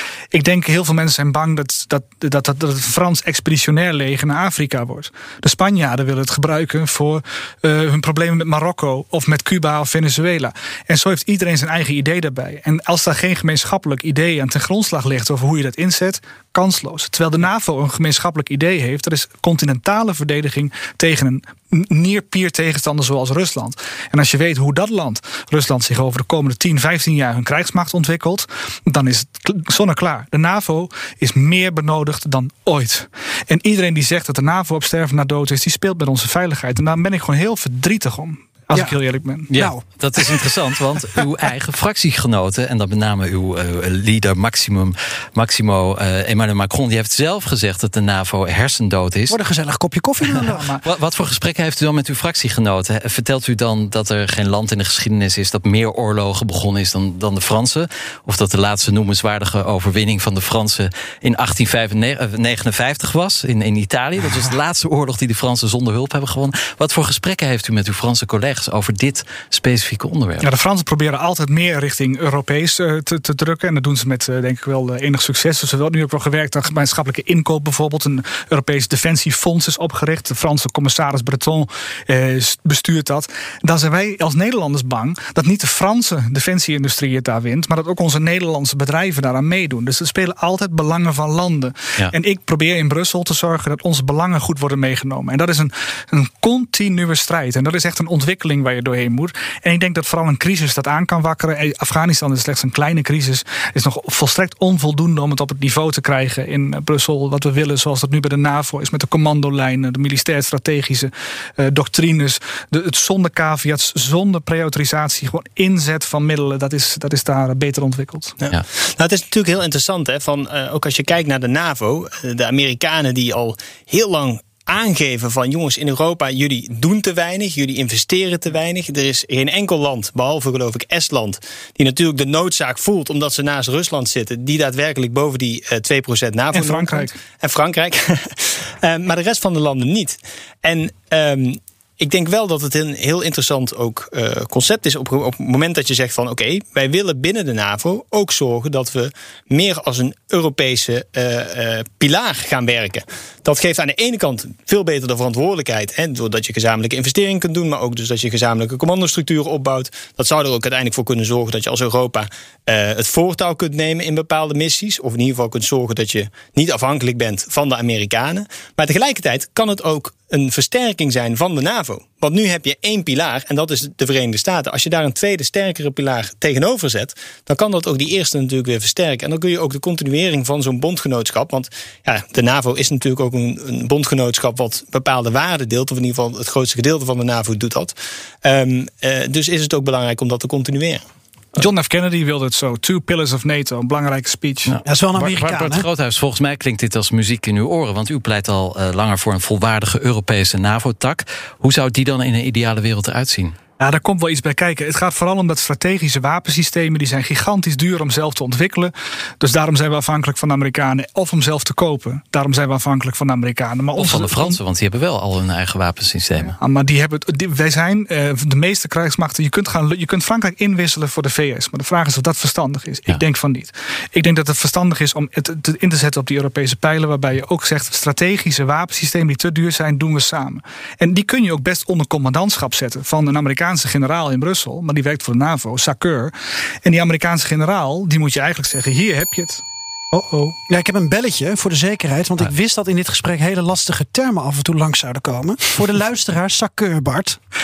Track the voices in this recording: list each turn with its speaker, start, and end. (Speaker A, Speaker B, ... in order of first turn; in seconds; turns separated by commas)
Speaker A: 0.3-39.5, Speaker B: 39.5-49.4, Speaker C: 39.5-39.8, Speaker C: 49.3-50.7, Speaker B: 50.3-70.5, Speaker A: 50.5-50.8, Speaker A: 70.4-118.3, Speaker D: 118.4-191.0, Speaker A: 136.5-137.1, Speaker A: 191.6-194.7, Speaker B: 194.7-203.6, Speaker C: 194.8-195.8, Speaker A: 203.8-214.6, Speaker B: 213.9-216.6, Speaker A: 216.5-236.3, Speaker A: 236.8-240.6, Speaker C: 240.7-247.4